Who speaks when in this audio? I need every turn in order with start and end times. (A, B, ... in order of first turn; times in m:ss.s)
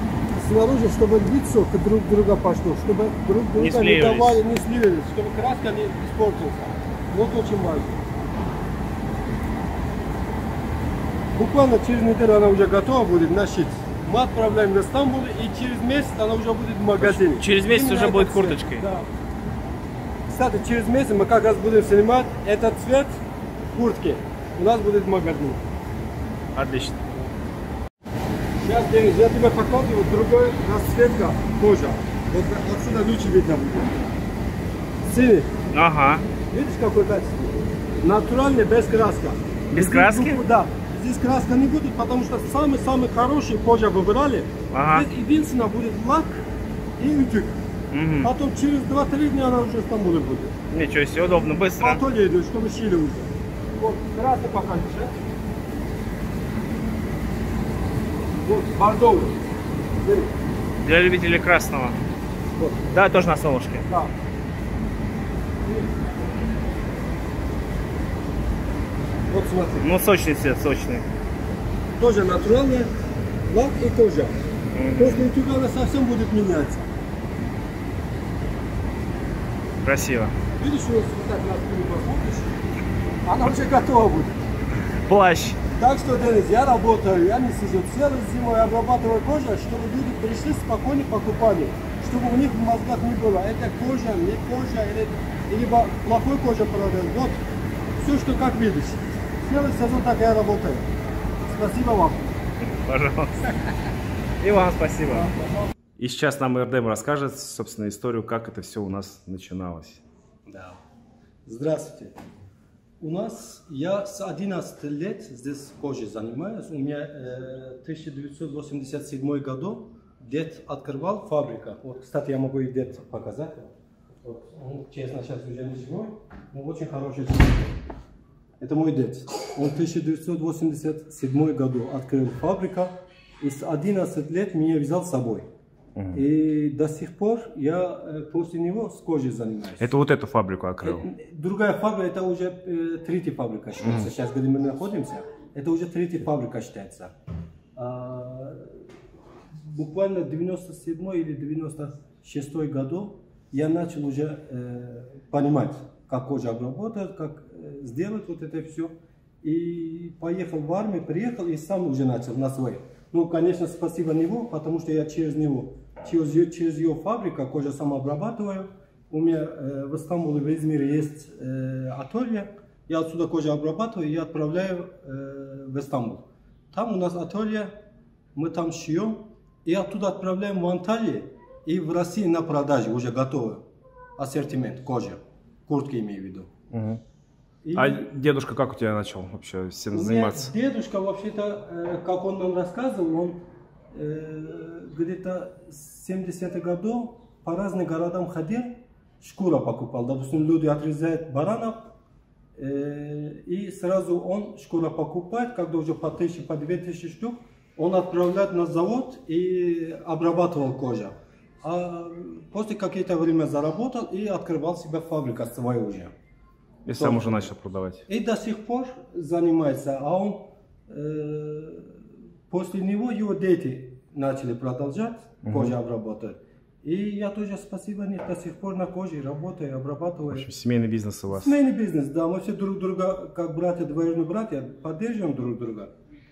0:00.3-0:08.0 A
0:03.5-0:04.4 B
0:11.3-0:19.1 A
0:17.0-0:18.8 B
0:20.3-0:23.2 A
0:23.7-0:25.6 A
0:26.5-0:27.0 B
0:28.6-0:34.0 A
0:35.0-0:35.5 A
0:35.7-0:36.2 B
0:36.4-0:46.4 A
0:39.7-0:40.4 B
0:44.7-0:45.1 B
0:47.0-0:47.6 A
0:47.9-0:48.3 B
0:48.2-0:50.6 A
0:50.7-0:52.0 B
0:51.8-0:55.2 A
0:58.4-1:00.3 A
1:00.8-1:02.0 B
1:02.6-1:03.0 A
1:02.9-1:03.9 B
1:03.8-1:04.1 A
1:09.3-1:09.9 A
1:09.8-1:11.0 B
1:12.0-1:12.9 A
1:13.4-1:14.4 A
1:14.7-1:15.3 B
1:15.0-1:16.9 A
1:19.8-1:20.3 B
1:20.6-1:22.6 A
1:23.2-1:24.4 A
1:25.1-1:25.6 B
1:25.7-1:37.4 A
1:38.0-1:40.9 A
1:41.4-1:42.4 A
1:42.6-1:43.6 B
1:44.4-1:45.3 B
1:45.1-1:45.7 A
1:46.0-1:50.0 B
1:50.5-1:50.8 A
1:51.4-1:52.2 A
1:53.0-2:03.7 A
2:04.2-2:07.8 A
2:08.6-2:15.5 A
2:16.0-2:16.2 B
2:16.1-2:19.9 A
2:19.8-2:21.1 B
2:20.8-2:27.1 A
2:23.8-2:24.1 B
2:27.8-2:28.8 A
2:29.7-3:06.5 A
3:06.7-3:07.0 B
3:07.6-3:08.1 A
3:07.7-3:10.5 B
3:09.9-3:22.0 A
3:22.6-3:36.1 A
3:36.8-3:38.0 B
3:36.9-3:37.5 A
3:38.1-3:42.0 A
3:42.5-3:50.5 A
3:45.4-3:45.7 B
3:50.3-3:51.6 B
3:51.3-3:55.9 A